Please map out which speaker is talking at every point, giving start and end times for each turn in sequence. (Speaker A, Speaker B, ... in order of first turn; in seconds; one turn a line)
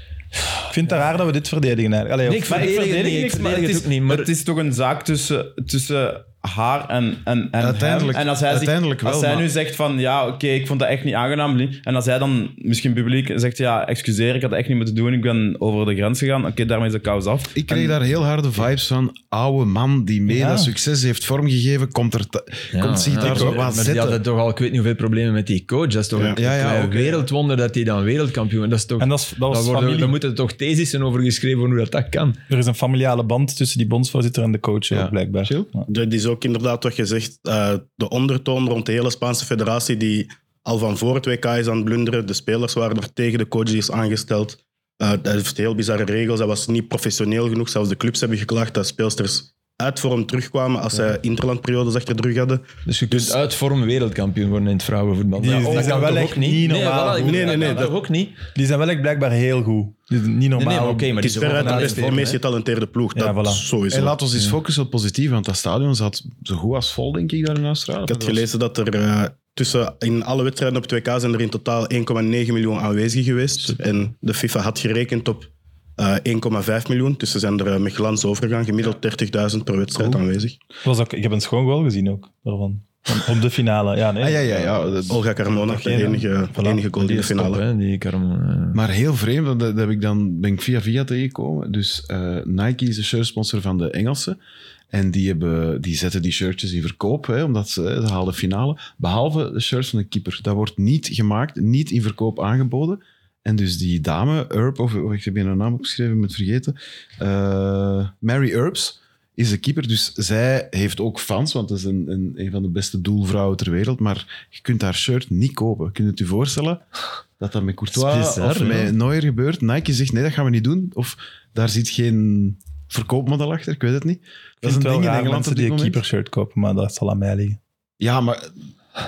Speaker A: 0.7-2.7
Speaker B: 2.2-4.3
Speaker C: 2.5-17.9
Speaker D: 7.6-9.5
Speaker D: 17.5-24.2
Speaker A: 20.3-20.7
Speaker B: 22.7-32.4
Speaker A: 23.2-23.6
Speaker D: 26.3-27.3
Speaker A: 29.0-30.1
Speaker A: 32.5-35.9
Speaker D: 34.9-35.7
Speaker E: 35.9-53.3
Speaker B: 52.8-58.4
Speaker A: 55.4-57.6
Speaker E: 57.1-57.9
Speaker A: 58.5-62.1
Speaker B: 60.5-62.4
Speaker E: 61.2-64.2
Speaker A: 63.1-63.6
Speaker D: 63.9-68.4
Speaker E: 68.0-80.5
Speaker A: 80.8-86.8
Speaker D: 84.2-85.2
Speaker E: 85.1-87.6
Speaker B: 86.9-88.8
Speaker D: 88.7-94.4
Speaker D: 94.9-116.8
Speaker D: 117.4-126.0
Speaker B: 117.9-118.9
Speaker A: 124.6-127.6
Speaker D: 128.0-128.6